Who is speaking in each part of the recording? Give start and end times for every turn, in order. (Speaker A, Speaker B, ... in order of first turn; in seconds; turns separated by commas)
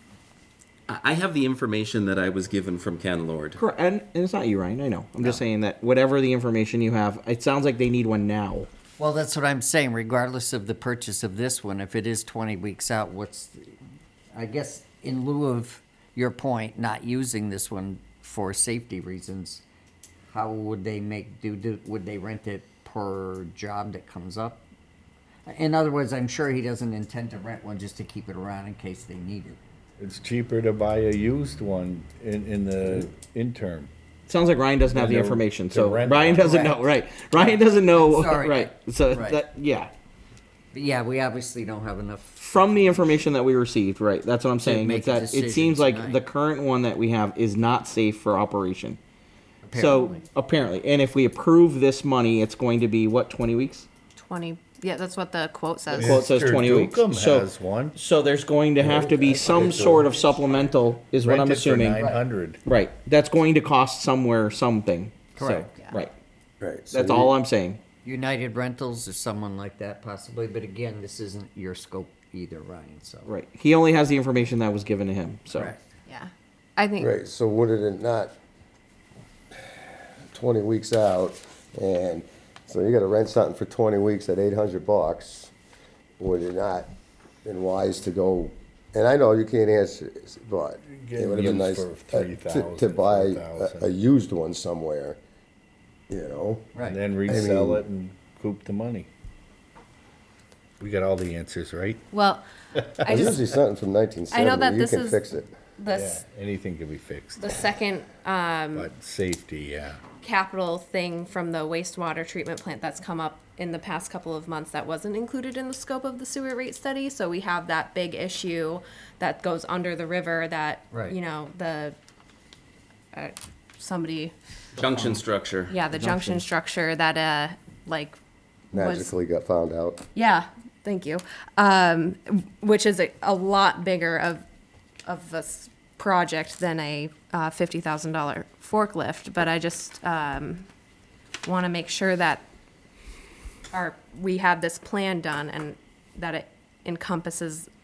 Speaker A: 0.9-3.6, Speaker B: 3.5-8.7, Speaker C: 9.0-13.8, Speaker C: 14.3-19.6, Speaker C: 20.3-24.6, Speaker C: 25.4-29.6, Speaker D: 30.0-33.9, Speaker B: 34.3-39.9, Speaker D: 34.9-36.6, Speaker C: 36.6-39.4, Speaker C: 40.7-43.1, Speaker B: 42.4-49.0, Speaker C: 44.6-46.2, Speaker C: 49.6-50.2, Speaker B: 49.7-53.9, Speaker E: 54.1-56.2, Speaker D: 55.9-58.0, Speaker B: 56.0-62.1, Speaker D: 58.9-60.2, Speaker D: 61.1-62.6, Speaker B: 62.6-66.1, Speaker C: 65.3-65.7, Speaker F: 66.6-67.3, Speaker B: 66.9-67.8, Speaker C: 68.0-73.3, Speaker B: 73.2-75.7, Speaker E: 76.1-77.1, Speaker F: 77.0-78.3, Speaker F: 80.3-85.5, Speaker F: 86.2-86.9, Speaker F: 87.4-95.2, Speaker D: 90.8-93.9, Speaker F: 96.1-97.8, Speaker D: 96.8-99.1, Speaker D: 100.8-102.1, Speaker E: 102.1-102.4, Speaker D: 102.8-103.3, Speaker E: 103.0-103.4, Speaker F: 103.0-105.5, Speaker E: 104.3-105.2, Speaker E: 105.8-106.2, Speaker D: 105.9-107.5, Speaker E: 107.4-108.9, Speaker D: 108.7-110.0, Speaker E: 110.2-122.0, Speaker E: 123.1-124.3, Speaker A: 124.8-125.7, Speaker E: 125.7-128.2, Speaker B: 125.9-126.4, Speaker E: 128.7-129.1, Speaker F: 128.7-130.0, Speaker E: 130.1-134.4, Speaker E: 135.0-140.7, Speaker E: 141.4-142.4, Speaker E: 143.7-147.7